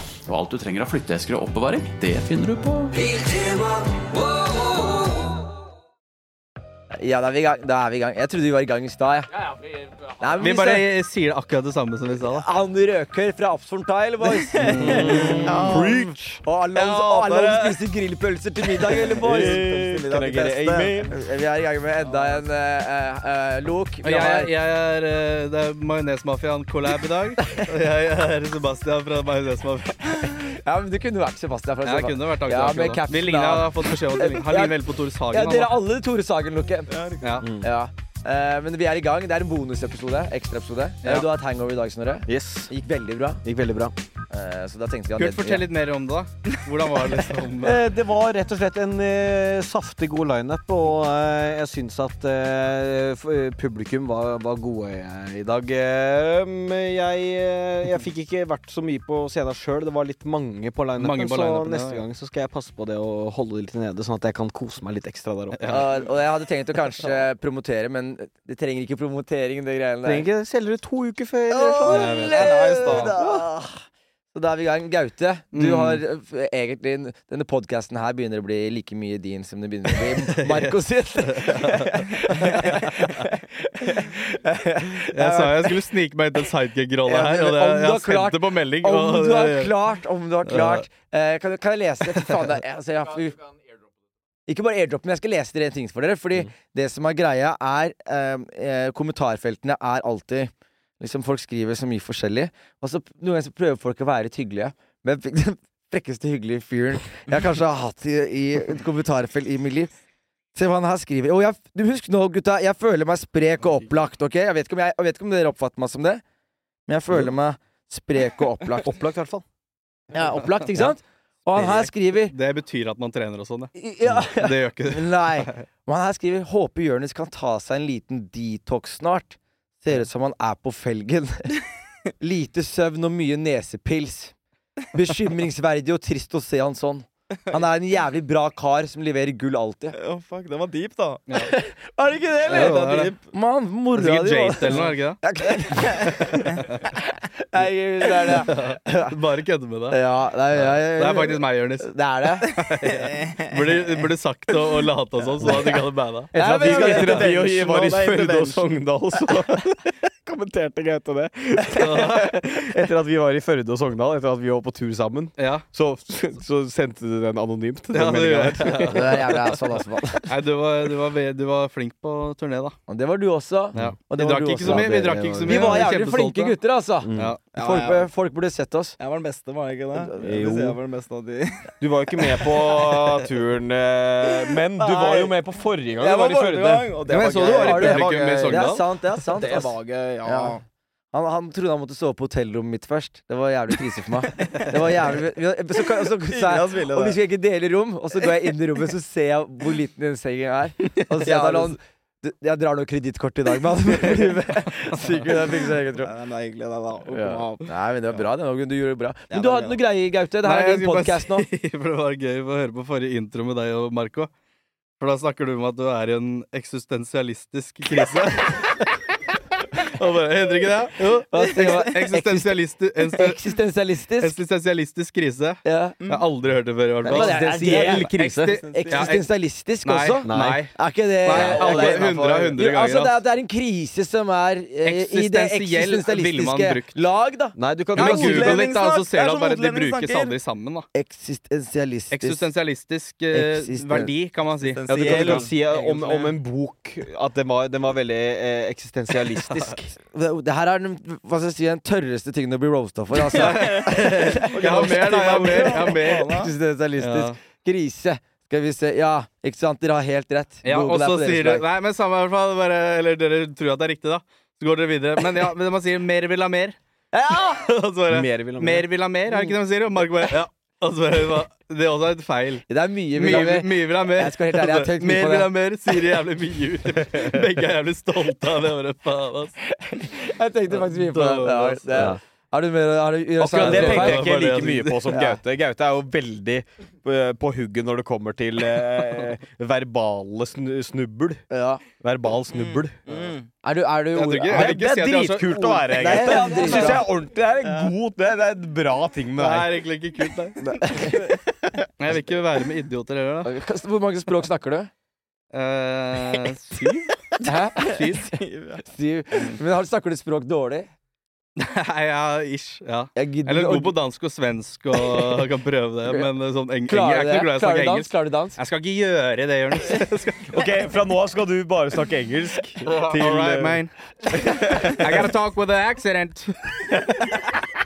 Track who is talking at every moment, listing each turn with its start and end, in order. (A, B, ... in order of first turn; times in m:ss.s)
0:00.3-0:03.0 A
0:06.9-0:09.3 B
0:10.2-0:10.9 B
0:10.4-0:12.5 C
0:12.3-0:19.7 B
0:14.6-0:15.8 C
0:14.8-0:16.4 D
0:15.4-0:16.1 E
0:16.7-0:17.8 E
0:18.8-0:21.0 E
0:19.2-0:21.1 D
0:21.0-0:24.5 B
0:24.0-0:30.4 C
0:30.5-0:34.7 B
0:31.8-0:35.8 C
0:35.3-0:37.0 B
0:36.9-0:37.3 E
0:37.4-0:37.7 D
0:37.6-0:43.4 B
0:42.3-0:42.7 D
0:43.4-0:44.0 D
0:44.3-0:45.6 B
0:45.2-0:47.8 C
0:47.6-1:05.9 D
1:01.0-1:02.0 C
1:05.6-1:06.0 C
1:05.7-1:10.3 B
1:10.0-1:13.5 D
1:11.5-1:13.7 B
1:11.8-1:13.2 E
1:11.9-1:13.1 C
1:14.3-1:25.8 B
1:15.5-1:16.0 C
1:20.3-1:22.7 C
1:25.1-1:29.8 C
1:27.1-1:33.4 B
1:30.5-1:30.8 C
1:34.5-1:49.9 B
1:50.6-1:56.2 B
1:56.9-1:58.9 B
1:58.7-1:59.4 D
2:00.1-2:02.3 B
2:01.6-2:05.6 C
2:03.8-2:11.6 B
2:12.2-2:14.3 B
2:14.9-2:20.0 B
2:19.9-2:21.2 E
2:21.4-2:26.6 B
2:22.4-2:23.2 E
2:22.5-2:23.2 C
2:23.9-2:25.2 C
2:26.5-2:26.8 C
2:27.4-2:29.2 B
2:28.4-2:30.0 C
2:29.9-2:32.5 B
2:30.6-2:36.3 C
2:32.9-2:33.8 E
2:36.3-2:37.3 B
2:36.4-2:49.4 D
2:36.4-2:38.6 E
2:41.8-2:42.4 C
2:45.4-2:45.7 C
2:47.9-2:49.5 C
2:48.9-2:50.3 B
2:50.3-2:52.8 C
2:52.9-2:59.0 B
2:53.8-2:56.6 C
2:54.6-2:55.8 D
2:57.0-2:57.4 D
2:57.2-2:57.4 C
2:57.5-2:58.1 E
2:59.0-3:03.0 E
3:00.2-3:00.8 D
3:01.8-3:07.0 D
3:04.3-3:05.4 E
3:06.0-3:08.8 E
3:07.1-3:08.9 C
3:07.3-3:10.6 B
3:09.3-3:10.6 E
3:11.1-3:26.1 B
3:14.4-3:14.8 E
3:15.8-3:17.2 E
3:21.2-3:21.8 E
3:26.0-3:27.7 E
3:27.1-3:31.5 B
3:29.3-3:29.8 E
3:30.4-3:34.3 C
3:35.0-3:38.9 C
3:39.8-3:43.6 C
3:41.3-3:44.4 B
3:44.2-3:49.3 C
3:45.6-3:46.0 B
3:46.0-3:46.3 E
3:47.0-3:57.6 B
3:47.1-3:48.6 D
3:47.7-3:49.1 E
3:49.8-3:53.2 C
3:50.2-3:50.7 D
3:51.3-3:51.9 D
3:51.7-3:52.0 E
3:54.8-3:57.0 C
3:57.6-3:58.7 D
3:58.0-4:00.4 E
3:58.0-4:00.9 C
4:00.9-4:02.5 B
4:02.1-4:06.3 C
4:03.3-4:04.1 B
4:04.6-4:06.2 E
4:04.9-4:10.0 D
4:09.5-4:09.8 C
4:10.1-4:21.6 B
4:13.3-4:16.4 C
4:13.3-4:16.5 E
4:17.0-4:17.4 C
4:20.6-4:26.8 C
4:27.1-4:27.6 B
4:27.5-4:39.6 C
4:28.1-4:28.9 D
4:32.7-4:35.5 B
4:39.8-4:44.4 B
4:40.7-4:42.1 C
4:41.9-4:42.2 D
4:43.4-4:51.4 D
4:43.5-4:45.0 C
4:45.1-4:45.4 B
4:51.5-4:51.8 B
4:52.0-4:53.2 D
4:52.6-4:53.5 E
4:53.6-4:54.8 B
4:54.1-4:56.2 C
4:54.5-4:59.8 D
4:55.9-4:57.0 B
4:56.6-4:57.0 E
4:57.6-4:57.9 E
4:59.4-5:01.0 C
5:00.8-5:01.3 B
5:02.0-5:03.6 C
5:03.4-5:04.9 B
5:05.5-5:07.1 C
5:07.4-5:08.2 B
5:07.8-5:08.3 C
5:08.2-5:08.8 E
5:08.9-5:10.9 B
5:11.6-5:20.7 C
5:13.2-5:14.0 B
5:16.9-5:18.6 B
5:20.5-5:23.8 D
5:22.9-5:23.9 C
5:24.6-5:26.6 C